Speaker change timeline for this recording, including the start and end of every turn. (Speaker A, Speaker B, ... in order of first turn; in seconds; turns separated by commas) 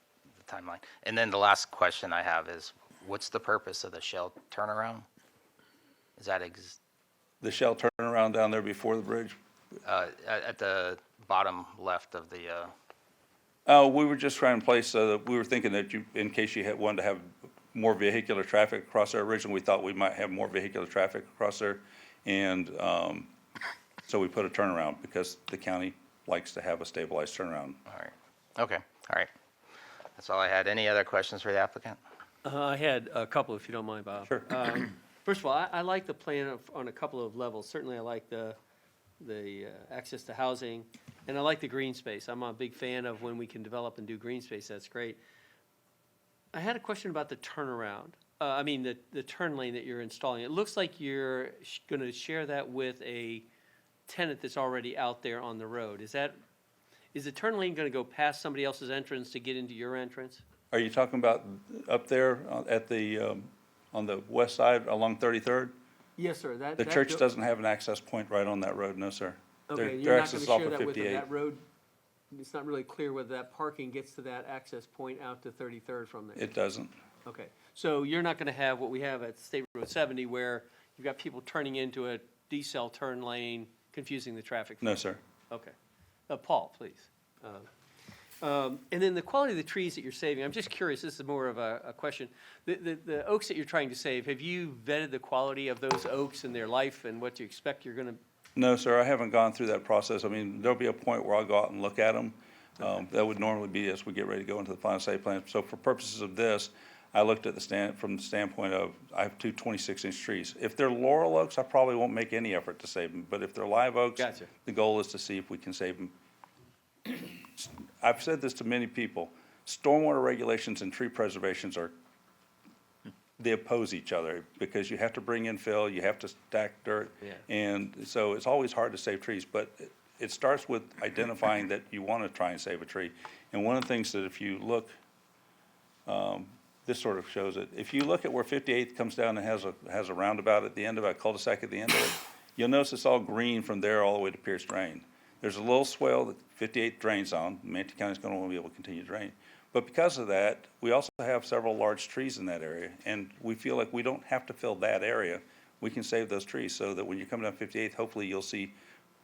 Speaker A: 0.4-5.0, Speaker A: 6.2-6.8, Speaker B: 7.4-9.4, Speaker A: 9.8-12.7, Speaker B: 13.7-23.3, Speaker B: 24.1-27.8, Speaker A: 27.9-29.3, Speaker A: 30.2-32.0, Speaker C: 32.4-38.6, Speaker C: 39.2-45.2, Speaker C: 46.5-53.5, Speaker C: 54.1-56.4, Speaker C: 57.1-60.4, Speaker B: 60.7-65.8, Speaker C: 66.2-67.2, Speaker B: 66.8-71.2, Speaker C: 69.7-71.6, Speaker C: 72.3-76.5, Speaker B: 76.3-76.9, Speaker C: 77.2-84.9, Speaker B: 84.8-85.2, Speaker C: 85.5-85.8, Speaker C: 86.3-87.7, Speaker C: 88.4-98.2, Speaker B: 98.6-116.1, Speaker C: 114.2-114.5, Speaker B: 117.1-121.9, Speaker B: 123.4-134.9, Speaker B: 136.1-158.7